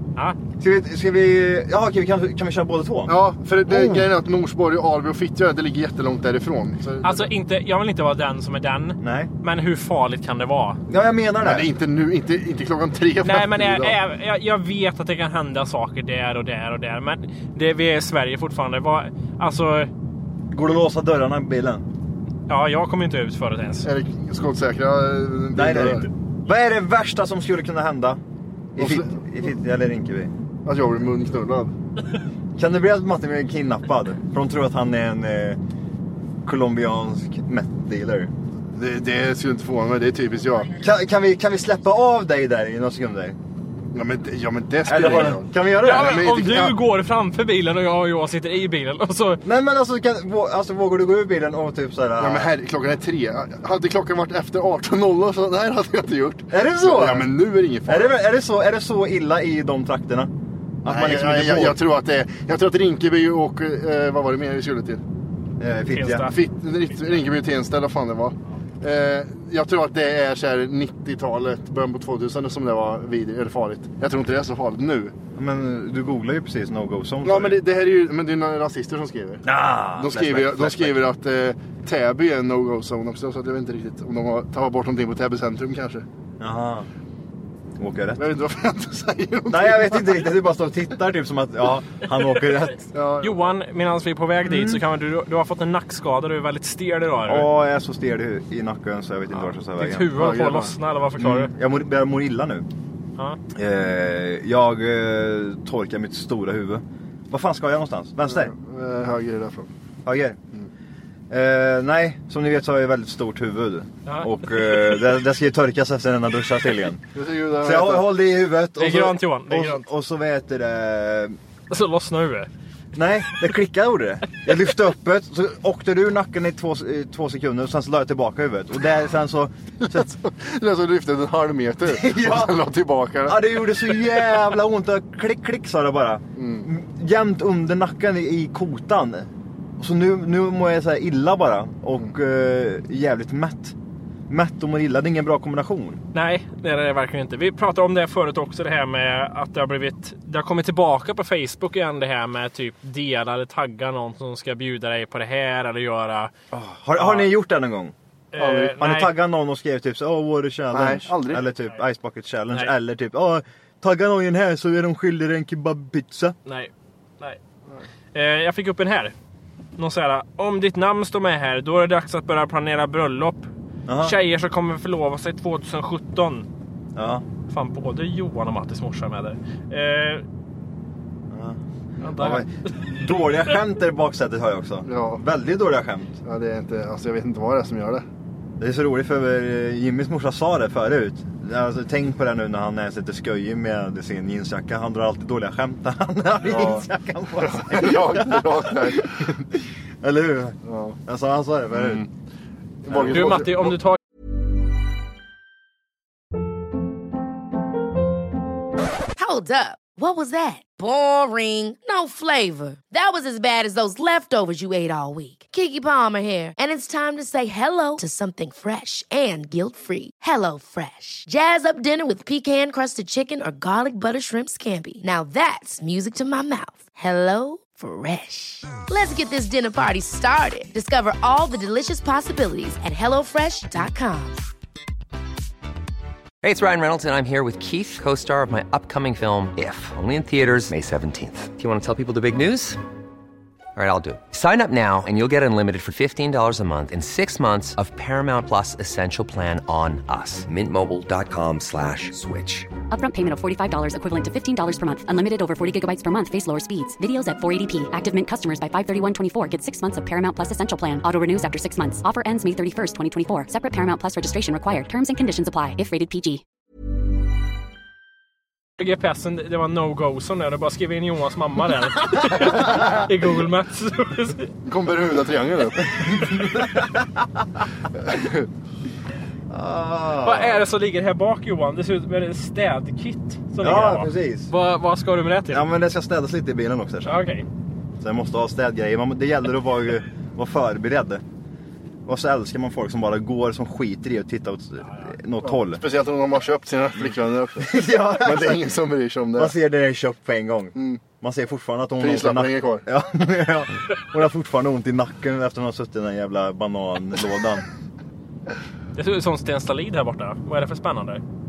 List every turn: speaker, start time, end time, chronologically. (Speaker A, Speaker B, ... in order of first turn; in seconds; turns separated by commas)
Speaker A: 0.6-3.2, Speaker B: 3.1-7.3, Speaker A: 3.7-4.0, Speaker C: 7.0-10.8, Speaker A: 9.0-9.3, Speaker A: 10.9-11.7, Speaker B: 11.4-14.0, Speaker C: 13.2-19.9, Speaker A: 20.5-21.9, Speaker C: 22.5-23.9, Speaker B: 23.8-26.1, Speaker A: 25.6-28.2, Speaker A: 28.8-30.3, Speaker B: 28.8-29.1, Speaker B: 30.6-31.7, Speaker A: 32.6-35.6, Speaker A: 36.4-38.3, Speaker B: 38.7-40.7, Speaker A: 40.8-43.4, Speaker B: 43.9-46.8, Speaker A: 44.9-46.3, Speaker C: 45.8-49.4, Speaker A: 49.4-52.5, Speaker B: 52.2-58.1, Speaker A: 56.5-57.3, Speaker A: 57.9-60.3, Speaker A: 60.8-61.8, Speaker B: 60.9-65.0, Speaker A: 65.6-66.3, Speaker C: 65.9-66.3, Speaker B: 66.2-75.1, Speaker A: 75.4-77.6, Speaker B: 77.2-86.1, Speaker A: 79.5-81.0, Speaker A: 86.4-86.9, Speaker A: 87.8-88.2, Speaker B: 88.2-90.3, Speaker A: 89.5-92.8, Speaker B: 92.9-93.4, Speaker C: 93.2-97.5, Speaker A: 94.4-94.8, Speaker A: 97.3-100.2, Speaker C: 99.3-101.5, Speaker B: 100.2-100.8, Speaker A: 101.2-102.7, Speaker A: 103.5-108.5, Speaker B: 108.3-109.7, Speaker A: 110.1-110.4, Speaker A: 111.3-117.0, Speaker B: 117.2-118.1, Speaker A: 117.6-121.4, Speaker C: 118.8-119.9, Speaker C: 121.7-122.5, Speaker A: 123.0-130.1, Speaker B: 129.8-134.1, Speaker A: 131.9-132.6, Speaker A: 133.3-143.8, Speaker B: 136.4-136.7, Speaker A: 144.3-146.0, Speaker C: 146.1-156.3, Speaker A: 156.5-157.9, Speaker C: 157.0-157.3, Speaker C: 158.3-159.1, Speaker B: 158.4-158.7, Speaker A: 158.6-166.4, Speaker B: 160.7-161.4, Speaker C: 166.5-167.4, Speaker C: 168.1-169.1, Speaker C: 169.8-173.5, Speaker A: 173.9-174.2, Speaker C: 174.0-176.5, Speaker A: 177.0-177.2, Speaker C: 177.5-180.2, Speaker A: 181.3-181.6, Speaker C: 182.0-183.1, Speaker A: 182.1-186.2, Speaker B: 184.8-185.2, Speaker B: 186.2-188.1, Speaker A: 188.6-199.3, Speaker B: 196.5-196.9, Speaker B: 197.4-199.4, Speaker A: 200.0-202.1, Speaker B: 200.7-201.0, Speaker B: 201.7-202.1, Speaker B: 202.8-203.8, Speaker A: 202.9-203.5, Speaker C: 203.1-204.0, Speaker D: 209.2-234.4, Speaker E: 236.4-242.8, Speaker E: 243.8-252.7, Speaker F: 252.9-266.4, Speaker C: 268.8-274.5, Speaker B: 274.7-275.9, Speaker A: 276.0-277.2, Speaker B: 278.1-278.5, Speaker A: 279.5-280.6, Speaker C: 280.2-285.7, Speaker A: 283.6-284.5, Speaker A: 285.5-287.2, Speaker C: 287.1-287.4, Speaker A: 288.0-291.2, Speaker A: 292.1-295.8, Speaker B: 295.4-299.6, Speaker A: 297.6-298.7, Speaker A: 299.4-307.7, Speaker B: 300.8-301.0, Speaker B: 302.0-302.9, Speaker C: 309.0-311.2